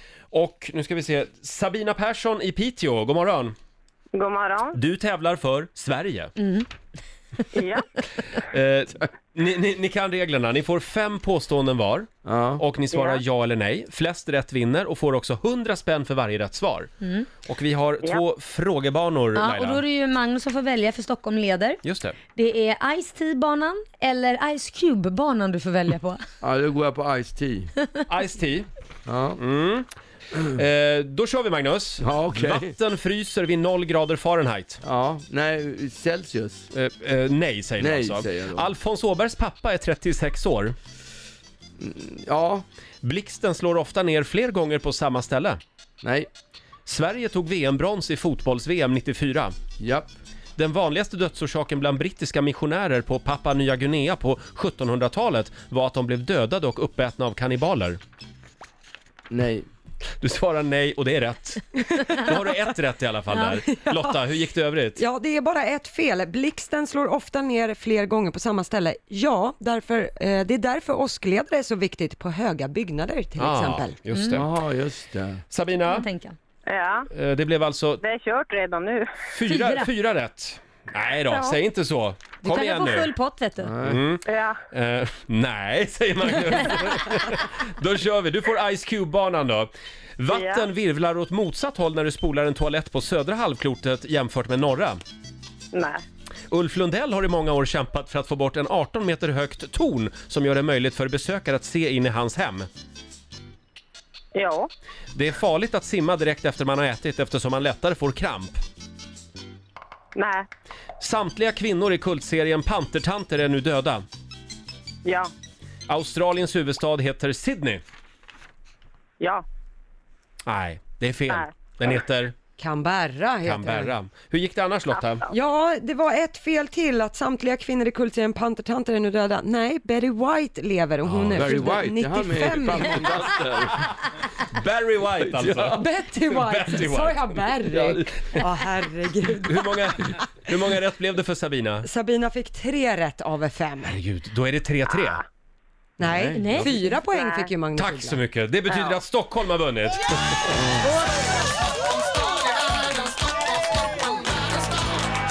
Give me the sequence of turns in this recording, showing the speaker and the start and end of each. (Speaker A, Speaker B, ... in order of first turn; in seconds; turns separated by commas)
Speaker A: 0.3-3.5, Speaker B: 4.1-4.8, Speaker A: 4.7-6.5, Speaker B: 7.5-7.9, Speaker A: 8.2-16.9, Speaker C: 12.2-12.6, Speaker B: 12.9-13.2, Speaker D: 17.0-17.3, Speaker A: 17.4-19.8, Speaker D: 19.3-21.8, Speaker A: 21.8-22.2, Speaker D: 22.3-26.2, Speaker C: 26.4-27.7, Speaker A: 28.0-28.7, Speaker C: 29.1-29.4, Speaker A: 29.4-34.8, Speaker C: 32.0-32.7, Speaker C: 34.8-36.7, Speaker A: 36.7-40.8, Speaker C: 37.8-38.7, Speaker C: 41.8-42.6, Speaker A: 43.0-45.6, Speaker C: 46.0-46.3, Speaker A: 46.9-49.5, Speaker C: 49.8-50.1, Speaker A: 50.6-58.0, Speaker C: 59.3-59.7, Speaker A: 60.2-65.0, Speaker E: 61.9-62.3, Speaker E: 63.8-64.2, Speaker E: 65.0-74.0, Speaker A: 73.4-74.5, Speaker D: 74.1-74.4, Speaker C: 74.3-75.4, Speaker A: 75.5-76.1, Speaker D: 75.8-76.3, Speaker B: 76.7-77.1, Speaker A: 77.1-78.0, Speaker B: 78.0-79.1, Speaker A: 79.3-83.1, Speaker D: 79.4-79.9, Speaker D: 82.4-83.8, Speaker C: 83.6-84.0, Speaker A: 83.8-95.0, Speaker B: 84.2-84.6, Speaker B: 90.3-90.7, Speaker B: 95.7-96.0, Speaker A: 96.5-102.7, Speaker B: 104.3-104.7, Speaker A: 105.1-108.6, Speaker B: 110.1-110.4, Speaker A: 111.0-114.0, Speaker B: 115.0-115.3, Speaker A: 115.9-117.8, Speaker A: 120.5-122.3, Speaker B: 121.3-121.6, Speaker E: 122.6-123.9, Speaker A: 123.4-125.2, Speaker E: 125.3-133.3, Speaker A: 131.0-131.7, Speaker C: 131.3-133.9, Speaker A: 134.4-137.3, Speaker C: 135.1-135.8, Speaker E: 135.7-140.5, Speaker C: 137.6-138.5, Speaker A: 139.3-141.9, Speaker E: 141.8-143.9, Speaker A: 143.8-145.2, Speaker B: 144.9-145.2, Speaker E: 146.0-148.2, Speaker C: 146.0-146.7, Speaker D: 146.3-147.0, Speaker B: 147.1-147.5, Speaker A: 147.8-150.5, Speaker B: 148.7-149.0, Speaker C: 150.5-150.9, Speaker D: 150.8-151.2